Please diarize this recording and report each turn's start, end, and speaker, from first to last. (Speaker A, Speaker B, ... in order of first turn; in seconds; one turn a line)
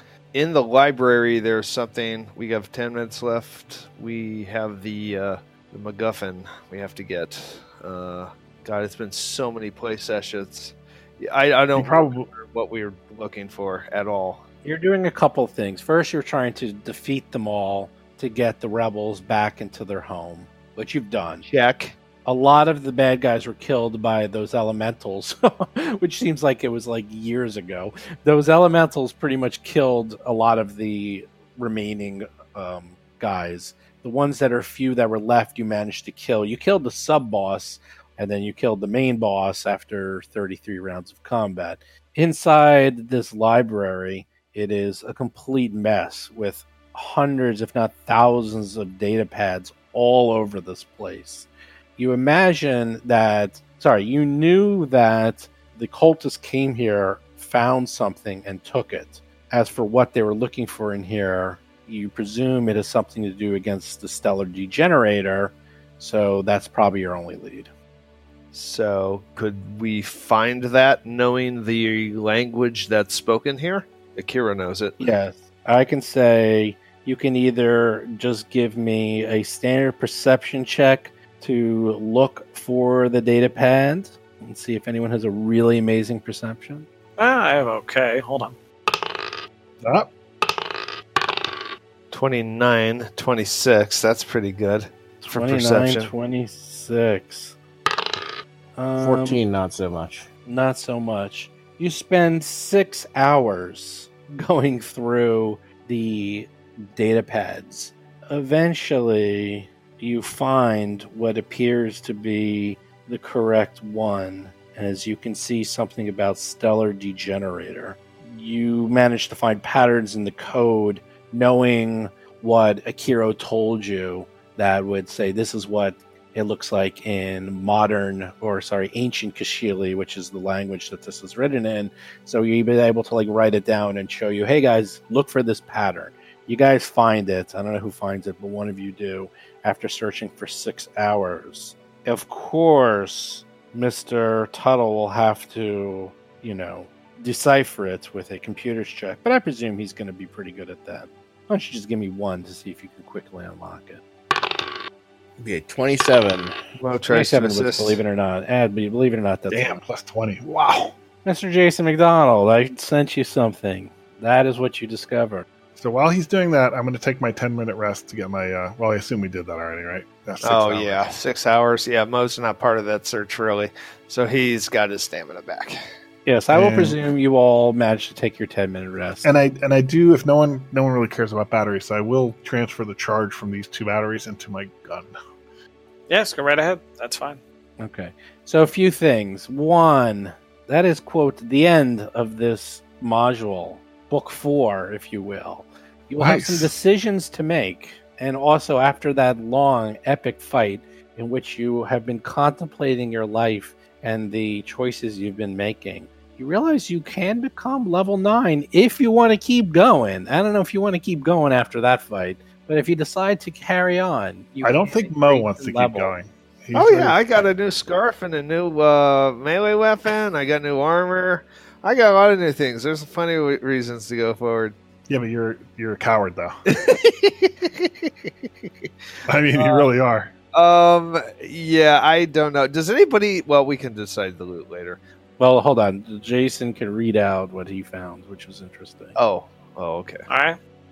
Speaker A: 0.3-14.4
Speaker B: 11.8-12.3
Speaker C: 14.7-21.5
Speaker A: 21.4-21.9
Speaker C: 22.3-67.7
Speaker A: 68.5-75.0
Speaker C: 75.0-86.9
Speaker D: 87.2-88.6
Speaker B: 89.8-90.1
Speaker A: 92.1-96.1
Speaker C: 95.2-97.6
Speaker C: 98.8-99.4
Speaker E: 99.0-100.3
Speaker C: 100.5-154.0
Speaker E: 155.4-156.6
Speaker A: 156.8-158.0
Speaker C: 157.1-159.8
Speaker B: 159.5-160.9
Speaker C: 161.2-165.5
Speaker B: 165.8-171.1
Speaker A: 170.4-175.8
Speaker C: 176.3-179.3
Speaker B: 176.5-177.0
Speaker B: 179.2-185.1
Speaker D: 186.1-187.4
Speaker C: 187.8-216.1
Speaker B: 196.2-196.7
Speaker B: 214.6-217.2
Speaker A: 216.8-224.8
Speaker B: 225.1-226.6
Speaker A: 226.7-228.9
Speaker B: 229.3-230.3
Speaker A: 229.5-229.9
Speaker A: 230.5-235.0
Speaker C: 235.4-239.2
Speaker A: 239.2-240.2
Speaker D: 240.3-240.6